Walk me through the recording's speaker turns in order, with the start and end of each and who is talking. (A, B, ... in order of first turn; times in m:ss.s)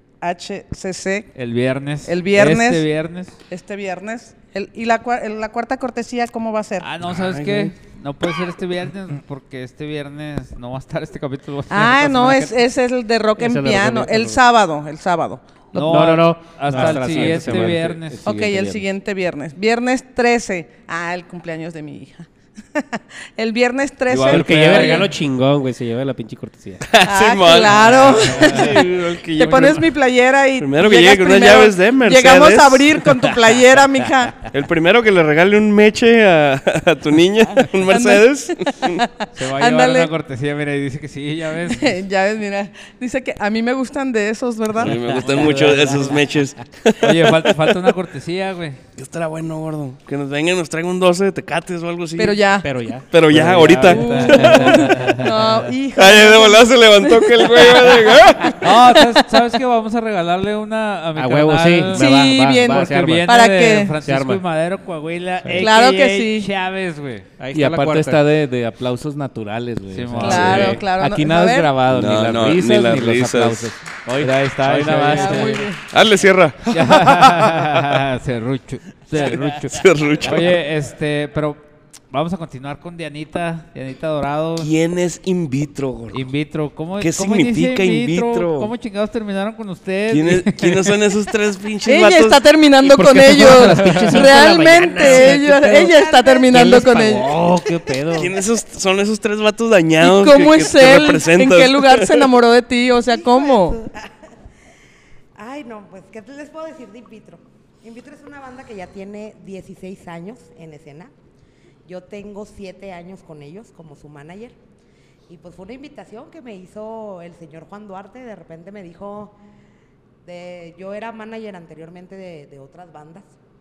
0:00.2-0:01.3 A
0:01.3-0:03.4 B
0:02.0-0:02.9 A
0:03.5-0:06.9 A
0:06.8-0:12.4 B
0:07.0-0:07.7 C
0:11.7-0:16.1 A
0:12.0-0:12.5 D
0:13.4-0:14.4 D
0:15.7-0:18.2 B
0:15.8-0:17.9 D
0:16.6-0:18.9 E
0:18.2-0:25.0 A
0:24.1-0:25.2 B
0:24.2-0:26.9 D
0:26.8-0:29.9 C
0:27.0-0:34.4 A
0:28.4-0:28.6 B
0:30.6-0:33.2 C
0:34.5-0:39.0 C
0:37.9-0:40.1 A
0:39.3-0:42.0 B
0:41.6-0:45.0 A
0:44.8-0:47.3 C
0:45.1-0:46.1 B
0:45.4-0:46.1 E
0:47.0-0:48.8 B
0:49.0-0:52.4 C
0:52.2-0:52.7 A
0:52.6-0:55.1 D
0:53.1-0:55.0 C
0:53.3-0:55.2 E
0:53.8-0:58.0 A
0:54.1-0:54.9 B
0:55.9-0:58.9 C
0:58.6-1:07.3 B
1:01.1-1:03.3 D
1:01.9-1:03.9 A
1:04.0-1:04.4 D
1:05.6-1:06.5 A
1:07.4-1:08.2 D
1:07.5-1:15.7 E
1:09.9-1:10.8 B
1:10.2-1:11.7 A
1:11.9-1:13.7 C
1:14.2-1:15.7 B
1:15.1-1:15.8 A
1:15.9-1:17.9 C
1:16.7-1:21.6 B
1:19.1-1:20.6 C
1:22.1-1:24.7 B
1:24.6-1:26.2 C
1:26.1-1:30.9 B
1:27.0-1:28.7 C
1:30.1-1:32.4 C
1:31.9-1:37.3 A
1:32.8-1:35.9 D
1:35.8-1:38.4 F
1:36.5-1:38.3 D
1:38.1-1:42.3 C
1:40.0-1:43.8 A
1:43.1-1:44.3 F
1:45.4-1:51.1 F
1:51.9-1:54.6 F
1:55.3-1:59.4 F
2:00.2-2:03.3 F